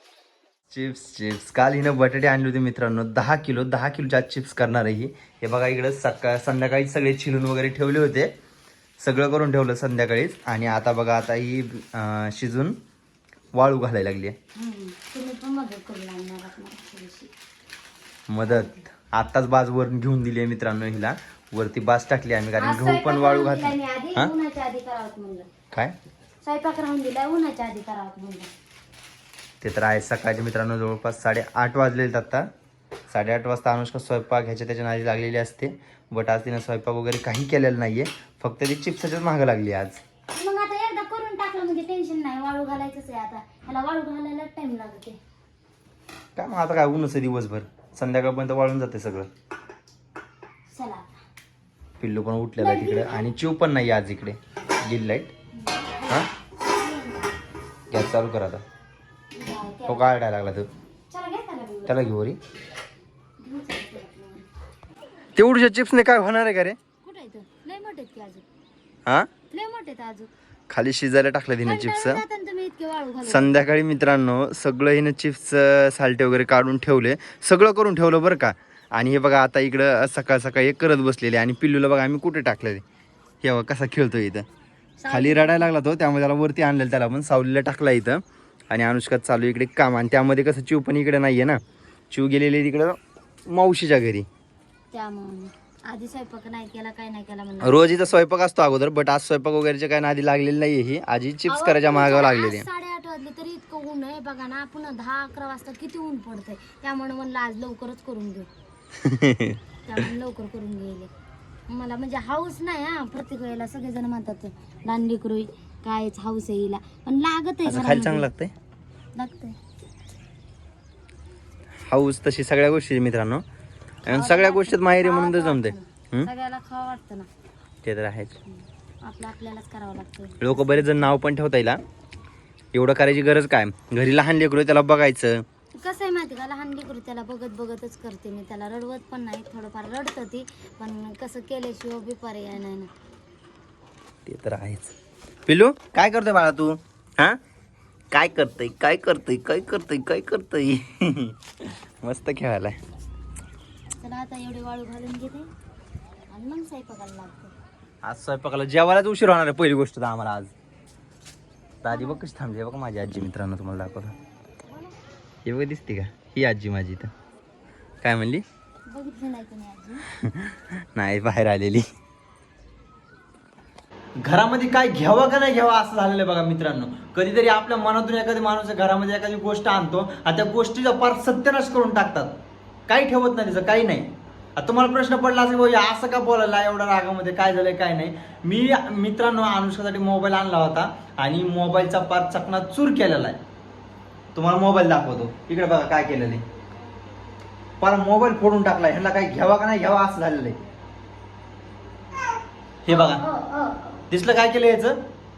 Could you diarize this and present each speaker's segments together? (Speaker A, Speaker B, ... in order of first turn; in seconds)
Speaker A: 0.7-8.3, 9.0-12.8, 13.6-14.4, 18.3-24.3, 29.6-32.5, 33.1-40.0, 46.4-49.3, 52.0-55.3, 57.9-58.6, 59.9-60.7, 61.9-62.4, 65.4-66.8, 70.7-72.2, 73.3-82.8, 83.4-84.5, 85.1-91.6, 92.1-94.3, 97.6-102.7, 109.0-109.6, 117.7-118.5, 121.9-123.4, 124.1-126.3, 127.8-128.4, 130.4-131.8, 132.7-135.4, 144.3-144.9, 145.5-147.4, 148.1-152.8, 158.0-160.5, 161.8-164.1, 165.4-167.1, 168.0-168.4, 170.2-171.9, 174.2-182.3, 182.9-193.4, 194.3-196.4, 197.8-200.6, 202.8-203.2, 204.1-205.0
Speaker B: 14.6-17.3, 18.5-18.8, 22.6-25.5, 26.4-28.5, 40.3-45.2, 50.7-51.2, 52.6-53.3, 55.6-57.3, 59.3-60.2, 61.1-62.1, 63.4-64.5, 67.0-68.4, 69.5-70.3, 71.6-73.6, 85.0-85.7, 94.9-98.0, 101.5-108.5, 109.9-111.1, 111.7-118.3, 119.2-119.6, 124.1-127.3, 128.5-130.7, 135.8-142.9, 154.0-155.5, 156.3-157.5, 161.9-162.2, 168.9-170.1, 202.9-204.1